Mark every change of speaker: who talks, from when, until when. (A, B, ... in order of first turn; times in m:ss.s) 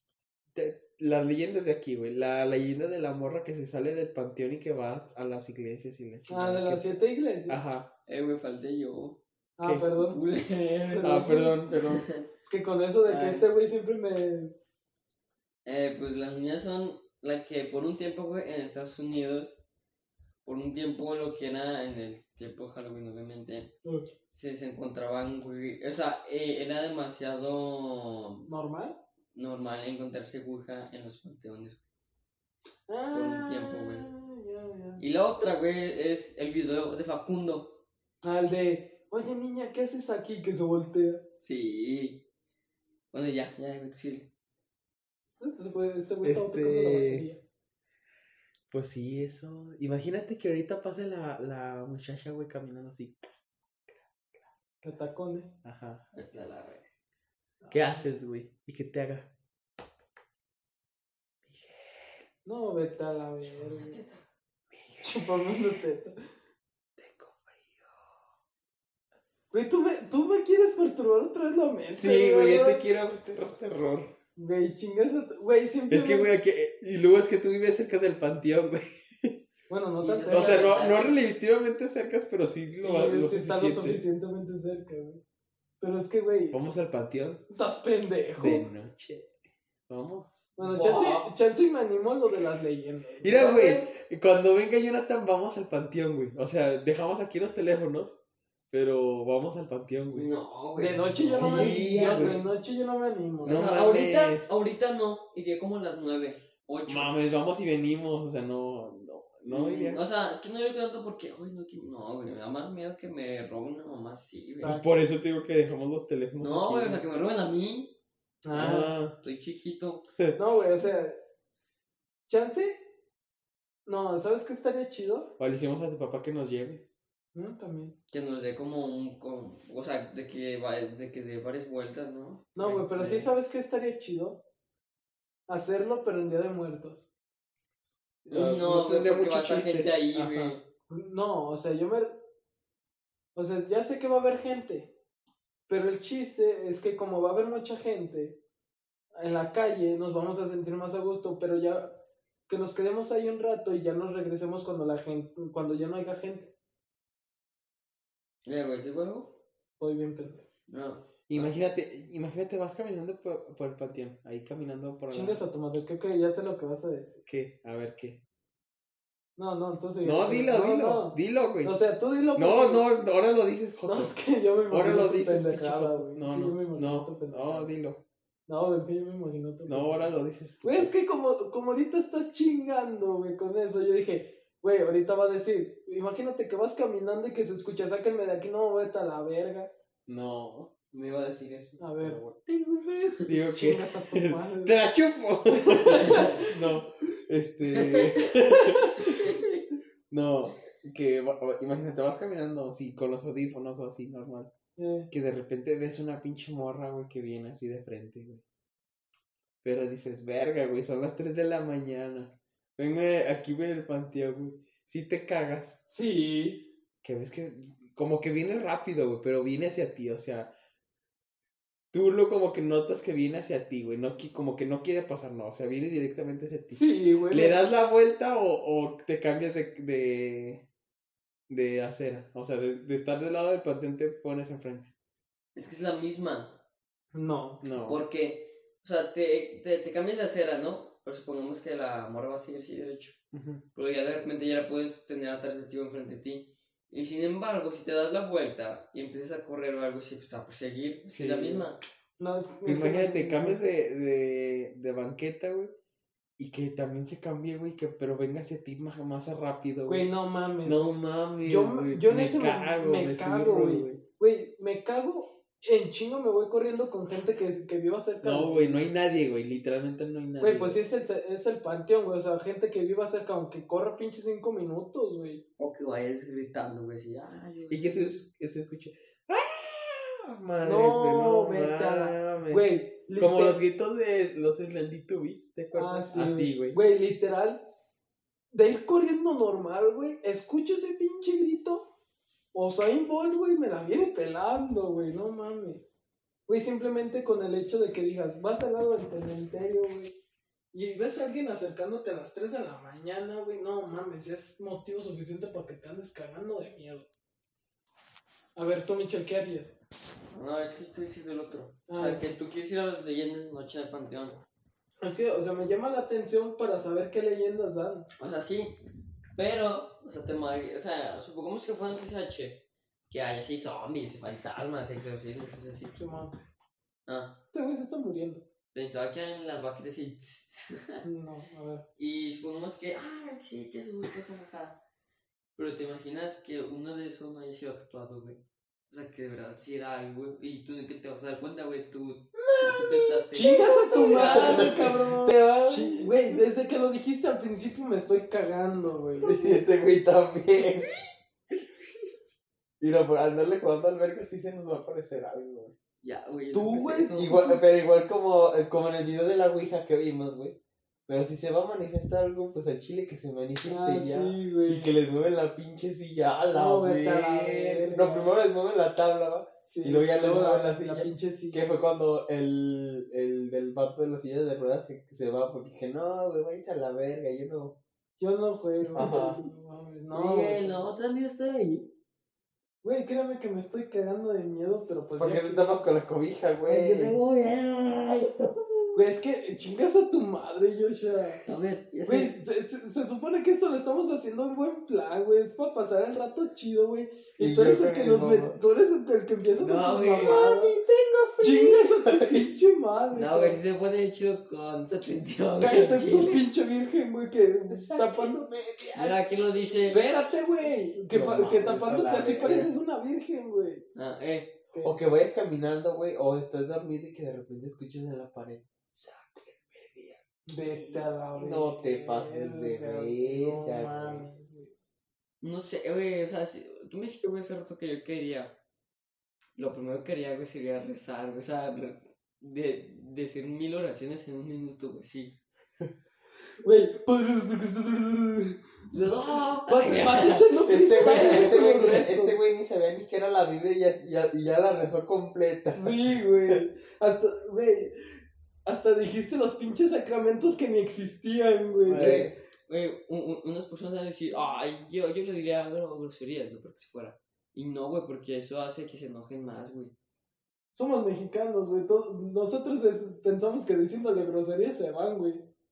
0:00.5-0:07.9 A
0:06.3-0:07.6 B
0:08.1-0:09.2 C
0:09.6-0:10.2 B
0:09.9-0:12.2 C
0:10.9-0:11.6 B
0:11.0-0:12.1 A
0:12.4-0:14.5 B
0:13.0-0:13.4 C
0:15.6-0:19.6 C
0:20.4-0:23.7 C
0:24.3-0:28.5 C
0:28.5-0:29.0 B
0:29.3-0:31.8 C
0:32.9-0:35.0 B
0:33.1-0:34.1 C
0:35.0-0:37.8 C
0:38.2-0:41.2 B
0:41.4-0:42.2 C
0:43.1-0:44.3 C
0:45.4-0:47.4 B
0:46.2-0:47.2 A
0:48.7-0:53.3 A
0:54.8-0:55.5 B
0:55.6-0:56.0 A
0:56.1-0:56.8 C
0:57.6-0:58.0 B
0:57.7-0:59.3 A
1:01.4-1:02.2 A
1:02.4-1:04.0 B
1:03.5-1:04.2 C
1:04.7-1:05.5 A
1:05.0-1:06.2 B
1:07.0-1:07.9 A
1:09.5-1:12.8 B
1:11.9-1:14.1 A
1:14.4-1:16.3 B
1:15.9-1:19.3 A
1:19.7-1:20.7 B
1:20.0-1:21.2 C
1:20.2-1:24.0 A
1:22.7-1:25.2 B
1:25.8-1:26.6 B
1:26.5-1:27.4 A
1:27.5-1:28.6 B
1:28.4-1:29.3 A
1:29.9-1:30.6 A
1:30.6-1:33.9 B
1:30.6-1:31.2 C
1:33.2-1:38.2 A
1:38.7-1:40.3 A
1:40.1-1:42.4 C
1:40.8-1:43.6 B
1:41.3-1:42.4 A
1:43.4-1:44.5 A
1:43.4-1:47.2 C
1:46.9-1:50.0 A
1:49.5-1:54.8 C
1:54.6-1:54.8 B
1:54.6-1:57.0 A
1:56.4-1:58.0 C
1:58.4-1:58.9 B
1:58.5-1:59.2 A
1:58.6-2:00.0 C
2:00.4-2:01.2 B
2:02.3-2:02.8 B
2:03.8-2:05.3 B
2:05.4-2:06.8 A
2:07.3-2:08.0 B
2:08.1-2:13.1 C
2:12.6-2:14.4 B
2:13.0-2:13.2 A
2:15.5-2:17.0 B
2:18.2-2:20.6 A
2:18.3-2:20.6 C
2:20.9-2:22.2 B
2:23.3-2:24.9 B
2:25.7-2:28.4 B
2:29.1-2:32.0 B
2:32.5-2:36.5 B
2:38.4-2:39.4 C
2:39.8-2:40.4 B
2:40.7-2:41.6 C
2:41.3-2:45.4 A
2:45.1-2:47.2 B
2:47.2-2:48.2 A
2:49.4-2:52.8 B
2:50.0-2:51.7 A
2:52.4-2:54.1 A
2:53.8-2:57.7 B
2:54.7-2:58.0 A
2:58.5-3:09.7 B
2:59.7-3:00.9 A
3:10.1-3:12.4 A
3:11.8-3:12.2 B
3:12.4-3:13.4 C
3:13.2-3:19.4 A
3:13.5-3:14.8 B
3:15.8-3:16.6 B
3:15.9-3:16.4 C
3:17.7-3:19.6 C
3:20.1-3:24.5 A
3:24.8-3:25.1 B
3:25.1-3:28.4 A
3:29.6-3:35.8 A
3:35.9-3:36.7 B
3:37.0-3:40.5 A
3:41.9-3:50.6 A
3:46.7-3:47.6 B
3:51.5-3:54.9 A
3:55.5-3:56.6 C
3:57.1-3:57.6 B
3:57.6-3:58.0 A
3:57.8-4:03.2 C
4:03.3-4:03.6 A
4:03.7-4:11.8 C
4:11.1-4:11.7 A
4:12.2-4:13.6 B
4:12.6-4:15.7 A
4:16.4-4:20.0 A
4:19.9-4:28.9 B
4:20.6-4:24.0 A
4:28.2-4:30.8 A
4:30.4-4:35.4 B
4:35.6-4:38.1 C
4:37.7-4:46.8 A
4:40.6-4:43.6 B
4:45.7-4:47.6 B
4:48.5-4:51.9 B
4:52.5-4:55.9 B
4:56.5-5:00.1 B
5:00.7-5:07.1 B
5:08.6-5:09.7 B
5:10.3-5:14.4 C
5:11.9-5:12.3 B
5:15.0-5:18.1 B
5:18.2-5:18.8 C
5:19.3-5:26.0 C
5:25.9-5:26.4 B
5:27.1-5:27.4 C
5:27.5-5:28.4 B
5:28.7-5:31.0 C
5:31.0-5:31.8 B
5:32.0-5:34.8 C
5:35.6-5:44.9 C
5:42.4-5:46.4 A
5:43.3-5:49.6 B
5:49.2-5:50.9 A
5:52.8-5:55.7 A
5:56.0-5:57.4 C
5:56.5-5:57.6 B
5:57.2-6:17.8 A
6:03.6-6:05.0 B
6:06.5-6:08.3 B
6:09.6-6:11.6 B
6:18.2-6:20.8 B
6:18.9-6:19.4 A
6:20.1-6:21.9 C
6:22.8-6:25.8 B
6:25.2-6:27.2 A
6:26.7-6:29.0 C
6:28.9-6:31.4 B
6:31.4-6:32.4 C
6:32.0-6:40.7 B
6:37.4-6:38.6 A
6:39.6-6:40.4 C
6:40.1-6:42.5 A
6:41.4-6:43.6 B
6:43.1-6:46.4 C
6:45.6-6:48.4 B
6:47.7-6:50.1 A
6:48.9-6:50.0 C
6:49.9-6:53.8 B
6:51.1-6:52.7 A
6:53.9-6:54.5 C
6:54.7-6:55.0 B
6:54.8-7:04.2 A
7:00.5-7:04.7 B
7:05.4-7:08.5 C
7:09.6-7:15.4 C
7:16.6-7:22.3 B
7:18.9-7:22.2 C
7:20.7-7:26.6 A
7:25.7-7:27.9 B
7:28.6-7:32.3 B
7:31.9-7:32.3 A
7:31.9-7:39.9 C
7:40.7-7:45.4 B